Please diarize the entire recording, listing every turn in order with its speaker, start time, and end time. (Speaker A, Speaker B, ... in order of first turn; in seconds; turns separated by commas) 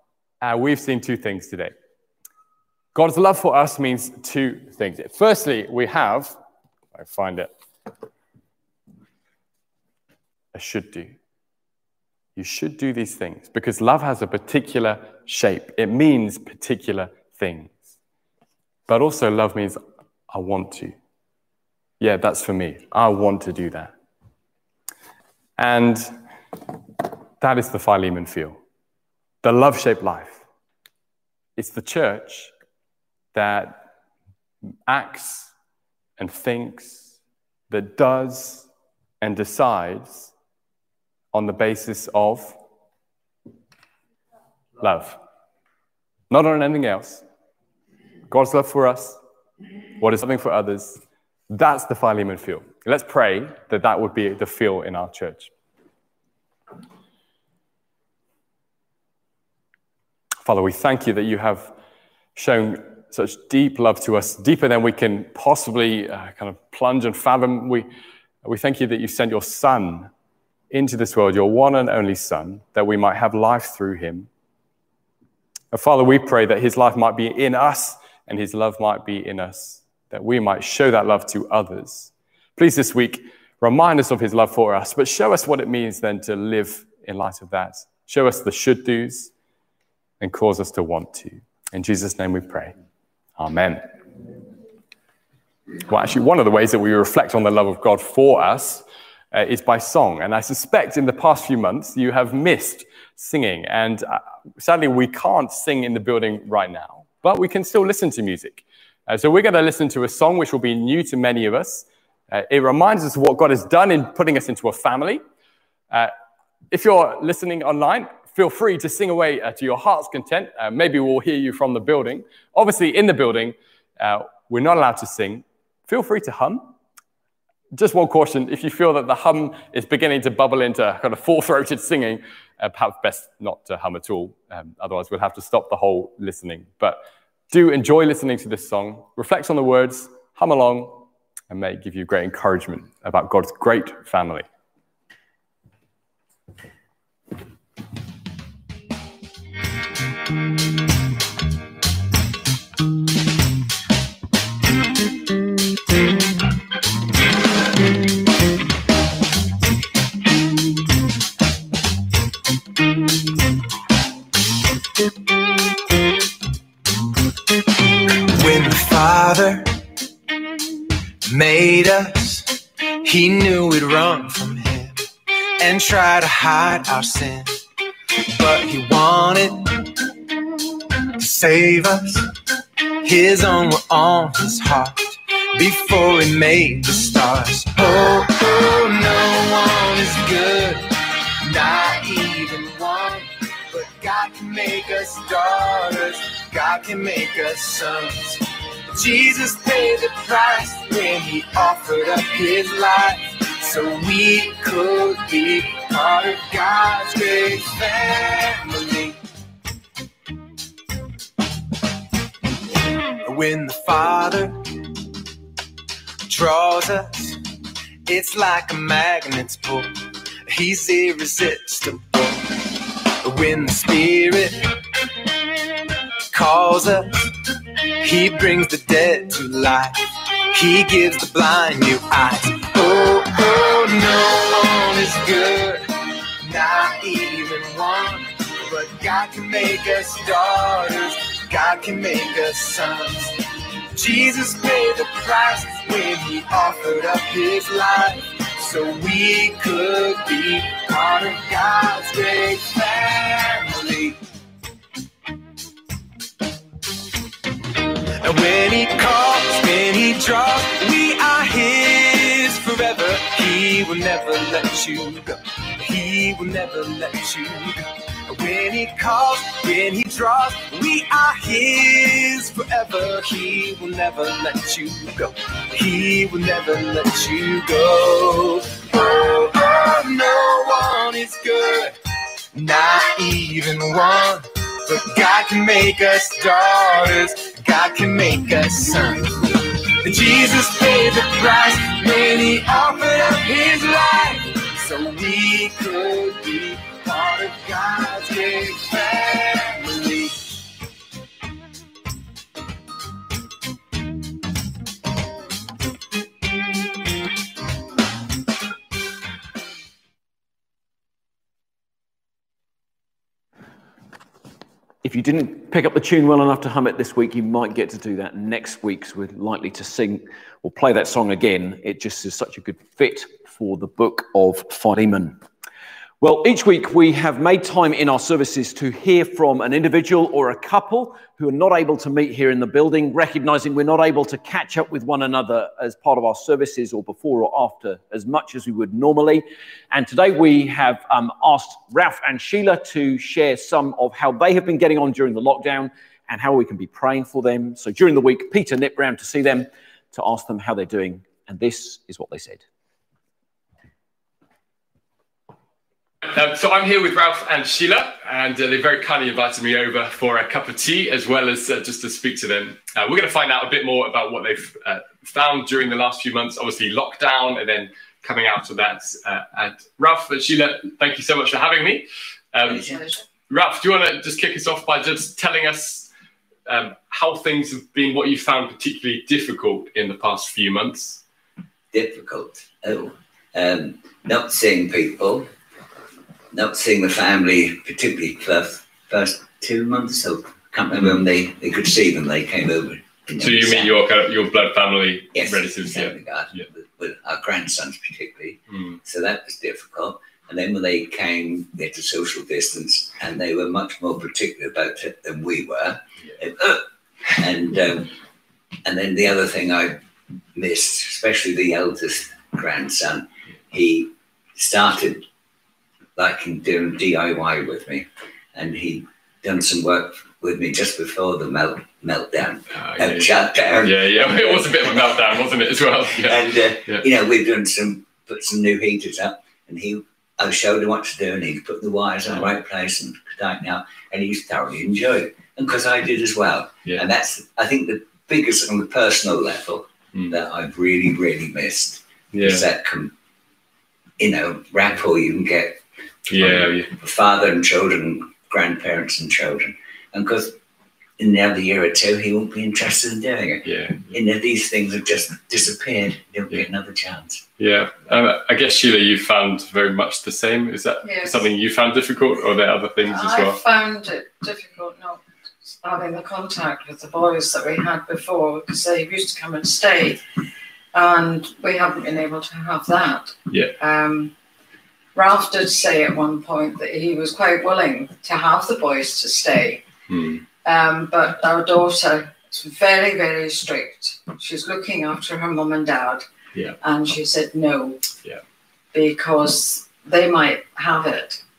Speaker A: 0.4-1.7, Speaker A: 2.9-6.4, Speaker A: 6.9-7.5, Speaker A: 10.5-11.2, Speaker A: 12.4-17.9, Speaker A: 18.9-21.0, Speaker A: 22.0-23.9, Speaker A: 25.6-26.2, Speaker A: 27.4-28.6, Speaker A: 29.4-30.4, Speaker A: 31.6-32.5, Speaker A: 33.3-33.9, Speaker A: 34.9-35.5, Speaker A: 36.2-37.1, Speaker A: 37.7-38.7, Speaker A: 39.2-40.3, Speaker A: 41.3-42.6, Speaker A: 44.8-45.2, Speaker A: 46.3-47.2, Speaker A: 48.3-49.2, Speaker A: 50.0-55.5, Speaker A: 60.5-61.7, Speaker A: 62.4-67.9, Speaker A: 68.4-70.1, Speaker A: 70.7-74.3, Speaker A: 75.7-89.3, Speaker A: 90.2-92.7, Speaker A: 93.4-93.8, Speaker A: 95.9-115.2, Speaker A: 116.7-126.7, Speaker A: 127.7-144.5, Speaker B: 168.1-169.8, Speaker B: 171.2-175.1, Speaker B: 175.6-177.6, Speaker B: 178.3-180.1, Speaker B: 181.2-182.3, Speaker B: 183.0-190.9, Speaker B: 191.4-209.2, Speaker B: 213.2-214.8, Speaker B: 216.3-217.4, Speaker B: 218.1-219.9, Speaker B: 220.5-222.6, Speaker B: 223.2-224.8, Speaker B: 226.3-235.8, Speaker B: 236.4-254.2, Speaker B: 258.2-281.9, Speaker B: 282.5-300.4, Speaker C: 315.0-325.4, Speaker C: 326.2-352.6, Speaker A: 356.3-372.0, Speaker D: 369.7-370.0, Speaker D: 370.9-371.7, Speaker E: 372.7-373.2, Speaker F: 372.7-373.0, Speaker A: 373.5-376.0, Speaker D: 373.7-375.3, Speaker A: 376.7-378.5, Speaker D: 378.5-381.2, Speaker F: 381.9-385.5, Speaker F: 386.5-394.0, Speaker D: 393.4-396.7, Speaker F: 395.3-408.1, Speaker D: 398.7-399.0, Speaker F: 408.9-410.0, Speaker F: 410.6-415.3, Speaker F: 416.2-425.2, Speaker D: 422.7-427.1, Speaker F: 426.1-443.1, Speaker D: 442.3-442.7, Speaker F: 444.2-445.8, Speaker D: 446.3-446.9, Speaker F: 446.3-450.6, Speaker F: 451.2-457.4, Speaker D: 453.6-454.2, Speaker D: 457.6-463.6, Speaker E: 461.0-461.5, Speaker E: 463.1-465.2, Speaker E: 465.8-470.2, Speaker E: 470.9-474.3, Speaker E: 475.1-479.8, Speaker D: 480.1-480.4, Speaker E: 480.6-486.2, Speaker E: 486.8-488.0, Speaker E: 488.9-491.4